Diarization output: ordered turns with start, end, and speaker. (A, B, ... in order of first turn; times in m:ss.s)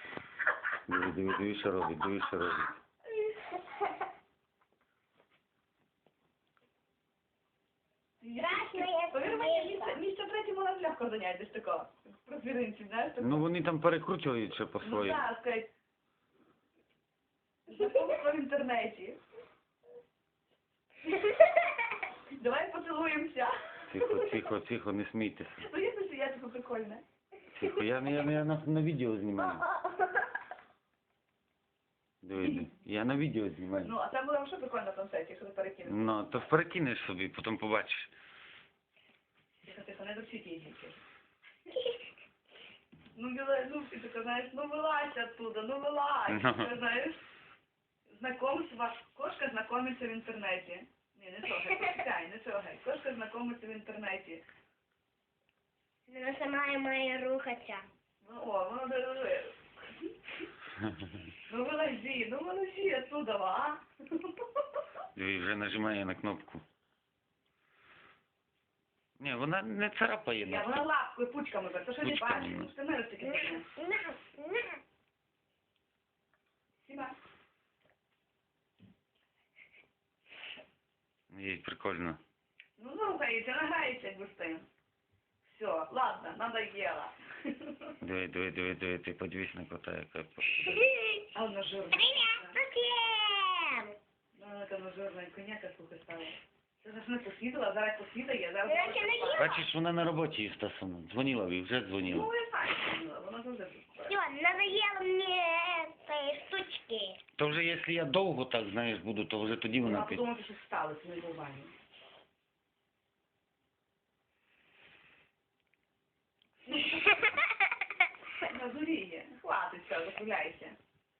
0:00.9-0:02.7 A
0:08.2-0:13.5 B
0:08.4-0:10.0 C
0:13.2-0:15.2 A
0:14.8-0:15.7 B
0:17.7-0:19.2 B
0:22.4-0:24.4 B
0:23.9-0:25.6 A
0:25.6-0:27.0 B
0:27.5-0:29.6 A
0:32.2-0:33.9 A
0:32.4-0:32.7 B
0:33.8-0:36.2 B
0:35.9-0:38.1 A
0:39.6-0:41.0 B
0:43.1-0:47.2 B
0:46.3-0:46.7 A
0:48.1-0:54.4 B
0:56.1-0:57.8 C
0:58.2-1:00.1 B
1:01.5-1:04.6 B
1:05.1-1:06.6 A
1:09.2-1:10.8 A
1:10.4-1:13.6 B
1:12.0-1:12.7 A
1:13.2-1:14.8 C
1:16.8-1:17.1 B
1:21.3-1:22.2 A
1:22.8-1:24.6 B
1:25.4-1:27.9 B
1:28.0-1:30.7 A
1:30.6-1:31.2 C
1:31.3-1:32.6 B
1:31.9-1:33.9 C
1:34.4-1:39.6 B
1:38.7-1:39.6 C
1:39.3-1:42.3 A
1:42.0-1:44.7 B
1:44.1-1:47.2 C
1:47.4-1:50.2 A
1:49.8-1:51.7 B
1:56.9-1:57.4 C
1:58.4-2:00.8 B